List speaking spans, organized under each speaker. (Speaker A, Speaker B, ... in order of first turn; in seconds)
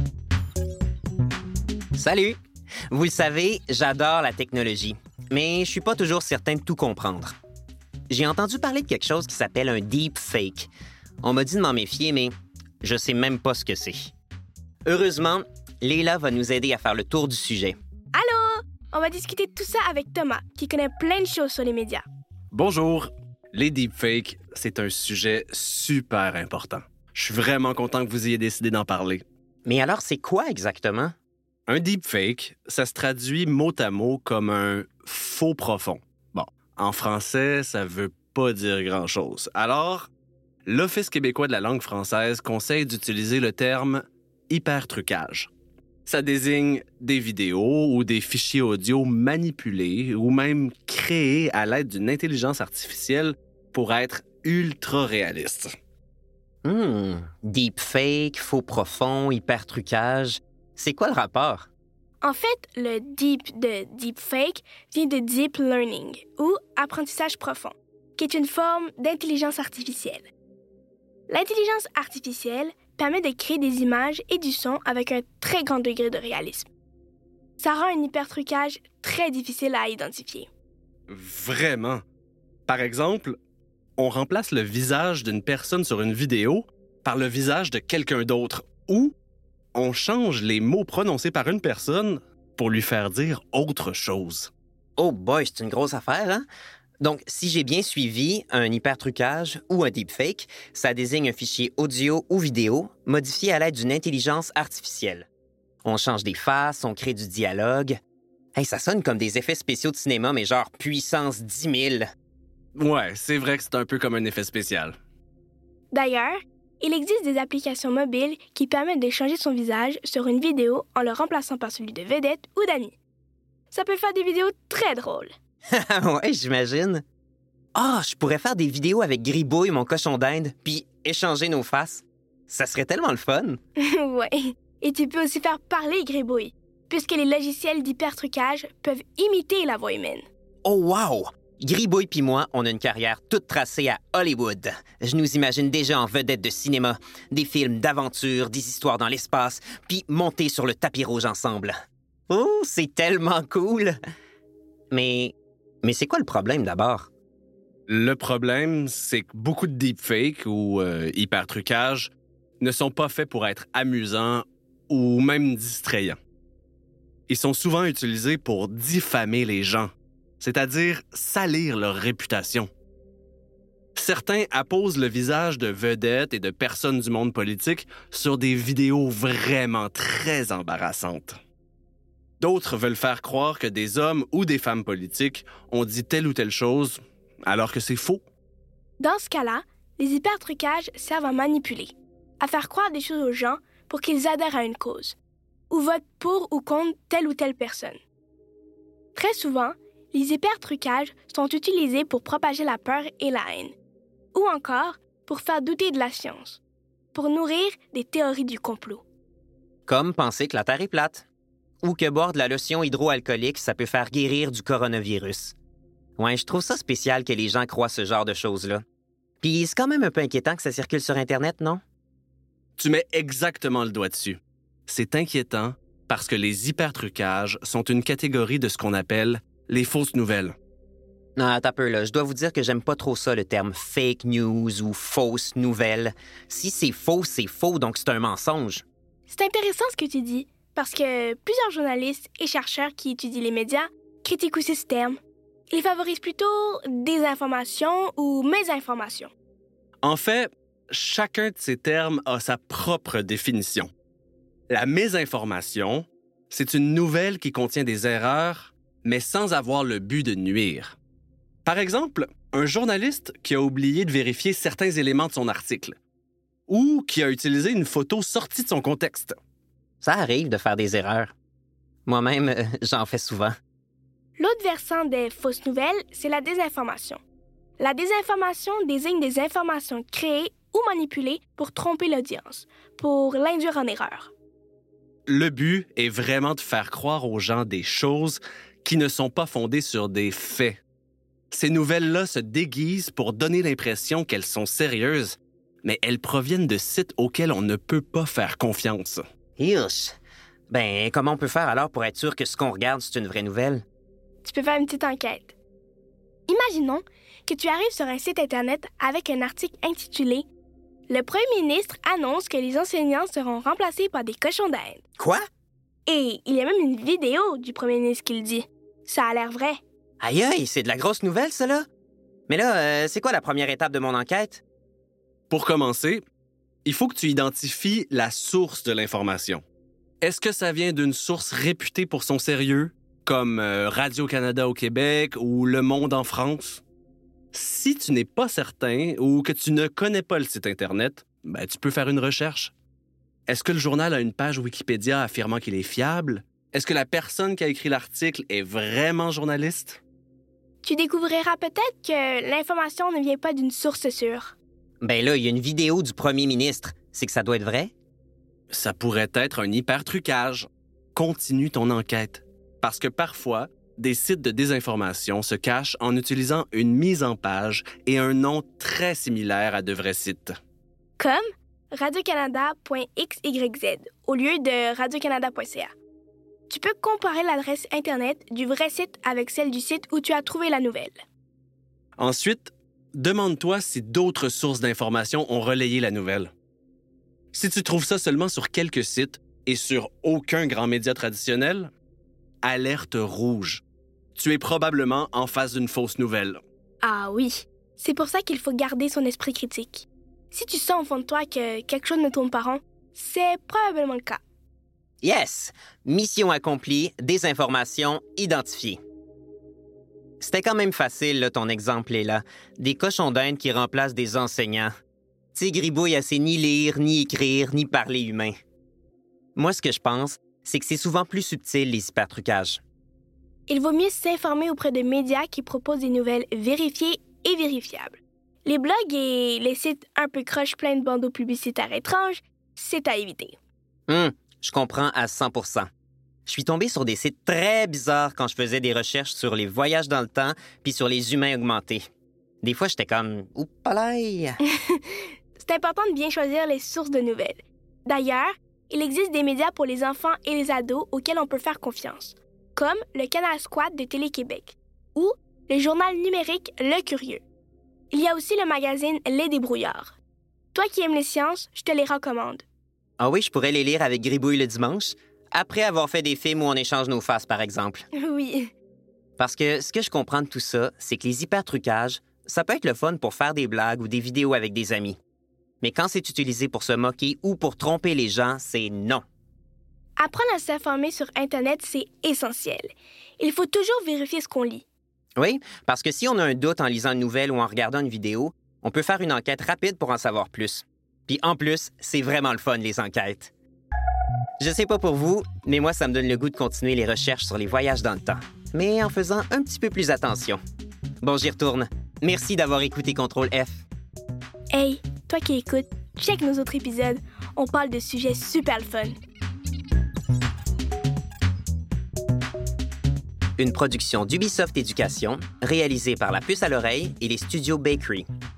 Speaker A: 2.0-2.4, 2.9-7.4, 8.1-10.7, 11.2-14.1, 14.9-17.8, 29.6-31.1, 56.6-61.7, 95.0-96.5, 97.0-105.3, 105.8-108.0, 108.5-112.1, 125.7-127.0, 127.8-133.6, 140.7-151.7, 152.3-154.0, 154.9-157.1, 209.9-211.3, 211.8-215.6, 216.2-218.8, 219.4-221.8, 231.4-238.8, 270.0-271.3, 272.1-273.5, 299.6-300.2, 300.7-303.8, 320.2-321.8, 322.5-324.6, 355.0-357.9, 405.2-409.0, 410.4-414.9, 415.6-418.6, 419.6-422.8, 434.1-435.9, 436.5-442.0, 442.6-444.6, 463.2-468.1, 469.4-475.2, 475.8-479.2, 485.4-493.5, 494.6-500.6, 501.2-503.9, 513.6-518.3
Speaker B: 18.1-22.0, 62.2-70.3, 71.3-76.7, 77.6-80.5, 115.9-123.0, 123.7-125.3, 133.8-140.2, 189.0-195.2, 195.7-198.0, 199.2-203.8, 204.3-206.6, 207.1-209.0, 239.3-245.2, 245.7-249.3, 274.4-277.2, 277.8-284.3, 304.4-305.6, 306.5-310.5, 311.1-315.0, 316.1-319.8, 350.8-354.6, 371.2-375.9, 376.7-381.2, 397.0-404.4, 423.7-433.6, 444.9-457.4, 458.1-460.2, 460.7-462.6, 468.2-468.7, 480.2-484.9, 504.7-509.1
Speaker C: 22.5-29.2, 31.7-40.1, 40.7-45.5, 46.1-55.7, 81.1-82.0, 82.7-83.4, 84.0-89.1, 89.8-94.5, 112.8-115.0, 157.9-166.2, 167.3-172.7, 174.0-181.4, 182.4-188.2, 222.8-230.6, 250.0-253.9, 254.7-261.0, 261.6-266.0, 266.7-269.4, 285.3-290.8, 291.5-299.2, 325.5-326.2, 326.9-329.6, 330.2-336.8, 337.5-342.7, 343.5-350.0, 358.7-370.5, 382.2-386.5, 387.5-391.9, 392.6-393.8, 394.4-396.6